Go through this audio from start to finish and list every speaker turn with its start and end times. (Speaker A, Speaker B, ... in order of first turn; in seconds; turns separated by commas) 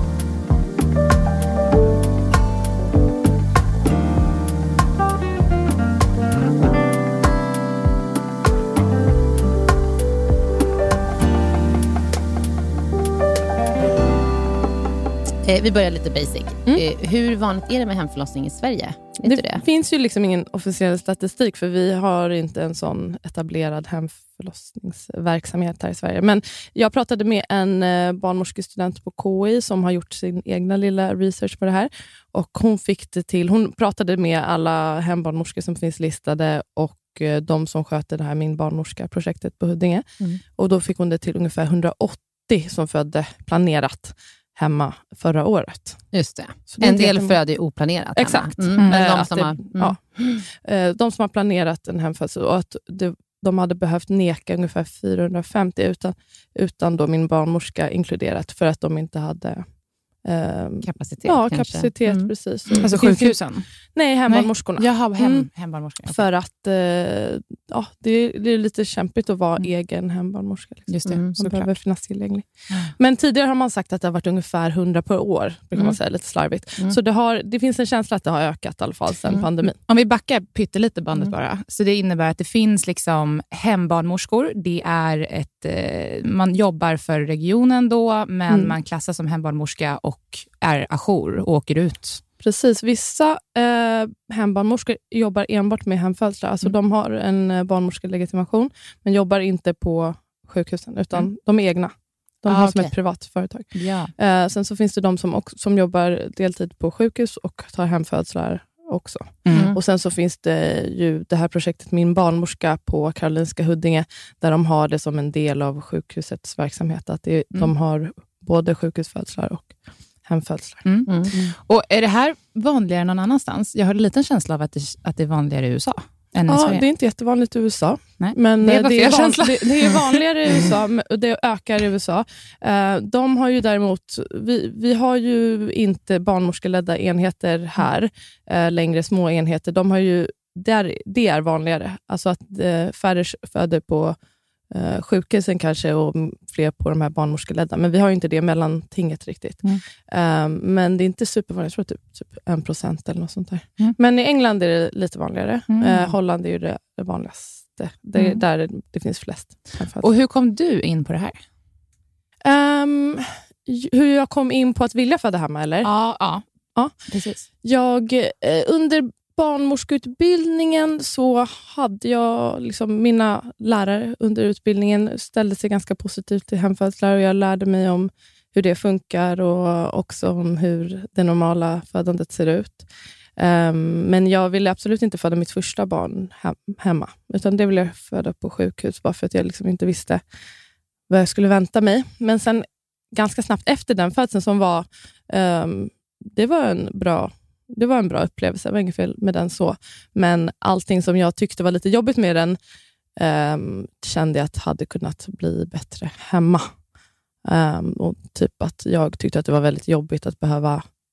Speaker A: 15.4-19.6, Speaker B: 19.2-40.1, Speaker B: 40.6-46.0, Speaker A: 46.1-50.4, Speaker B: 46.7-47.4, Speaker B: 48.1-59.7, Speaker C: 48.8-49.0, Speaker B: 60.2-63.4, Speaker A: 60.8-62.8, Speaker C: 62.8-63.7, Speaker B: 63.9-65.5, Speaker C: 64.3-66.2, Speaker B: 66.0-79.8, Speaker C: 70.9-71.7, Speaker A: 71.1-71.3, Speaker C: 79.9-92.2, Speaker B: 92.4-119.7, Speaker C: 102.5-102.9, Speaker C: 103.7-104.1, Speaker C: 109.5-109.8, Speaker A: 109.5-109.8, Speaker B: 120.2-121.5, Speaker C: 120.8-126.9, Speaker A: 121.1-121.3, Speaker B: 126.5-144.2, Speaker C: 128.2-130.6, Speaker B: 144.7-160.1, Speaker C: 155.7-156.1, Speaker C: 160.0-161.4, Speaker B: 162.4-165.9, Speaker C: 165.8-166.4, Speaker C: 167.1-167.5, Speaker B: 167.6-182.8, Speaker B: 183.4-190.2, Speaker B: 191.1-202.6, Speaker B: 203.2-206.7, Speaker B: 207.4-210.9